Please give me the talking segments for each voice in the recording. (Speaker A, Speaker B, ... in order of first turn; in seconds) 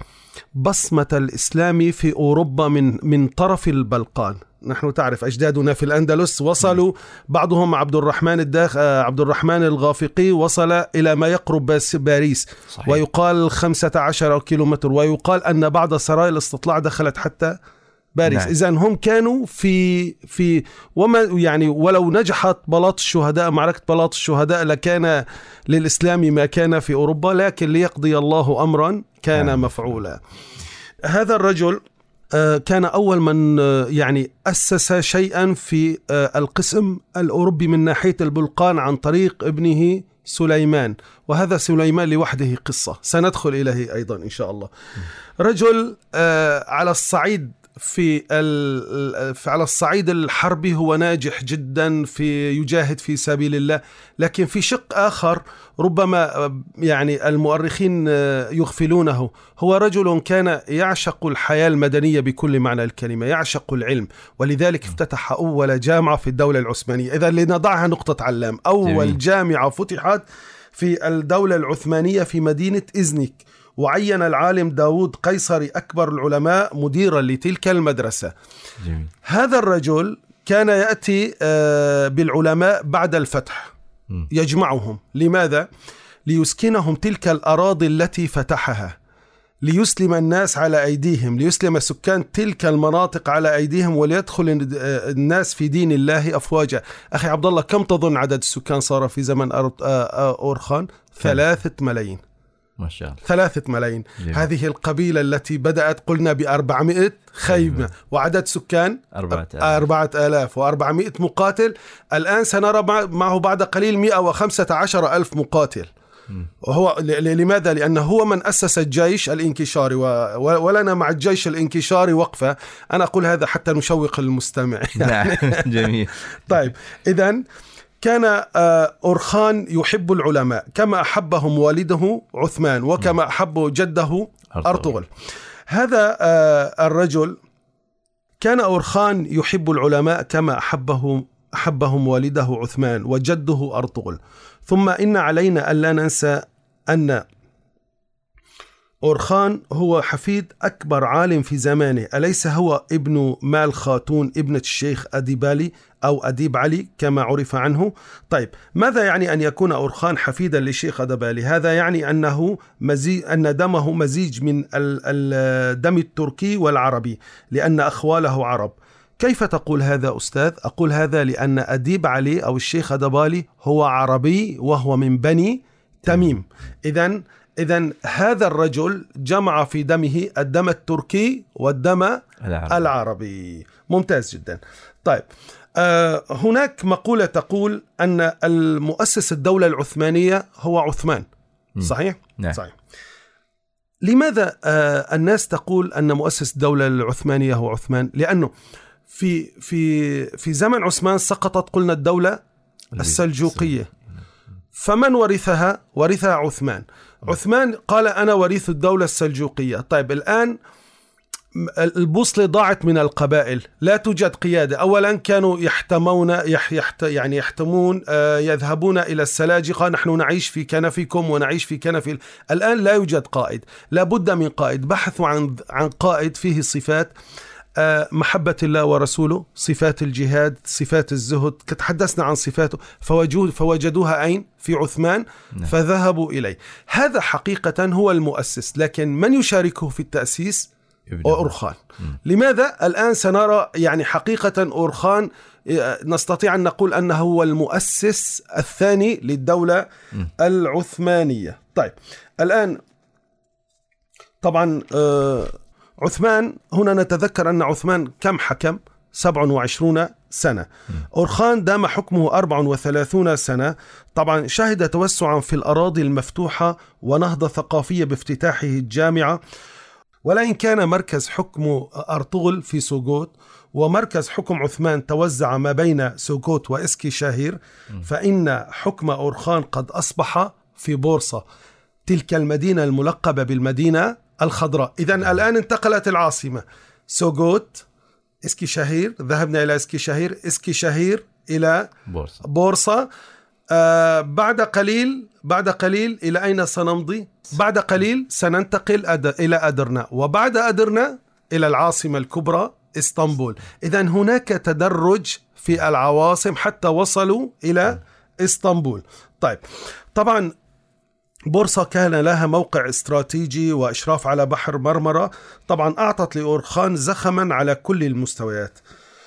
Speaker A: 0.5-17.6, 18.1-30.2, 31.0-44.7, 45.4-70.2, 70.7-78.3, 79.2-83.7, 84.3-85.7, 86.2-89.0, 89.6-102.2, 103.2-115.9, 116.6-125.9, 126.5-127.4, 128.0-135.1, 135.7-137.4, 138.4-147.2, 149.0-191.2, 191.8-192.7, 194.0-198.5, 199.1-202.4, 203.0-203.9, 204.7-210.6, 211.6-227.1, 227.8-240.7, 241.2-249.8, 250.4-252.8, 254.4-269.4, 270.2-281.4, 282.1-287.9, 288.4-293.1, 293.7-309.6, 310.1-310.5, 311.5-318.8
Speaker B: 12.7-13.0, 18.2-18.5, 68.8-69.2, 78.8-79.1, 102.8-103.2, 104.2-104.5, 107.5-107.9, 109.1-109.8, 125.0-126.2, 134.5-134.9, 182.4-182.8, 191.8-192.6, 202.9-203.2, 241.1-241.5, 292.1-292.4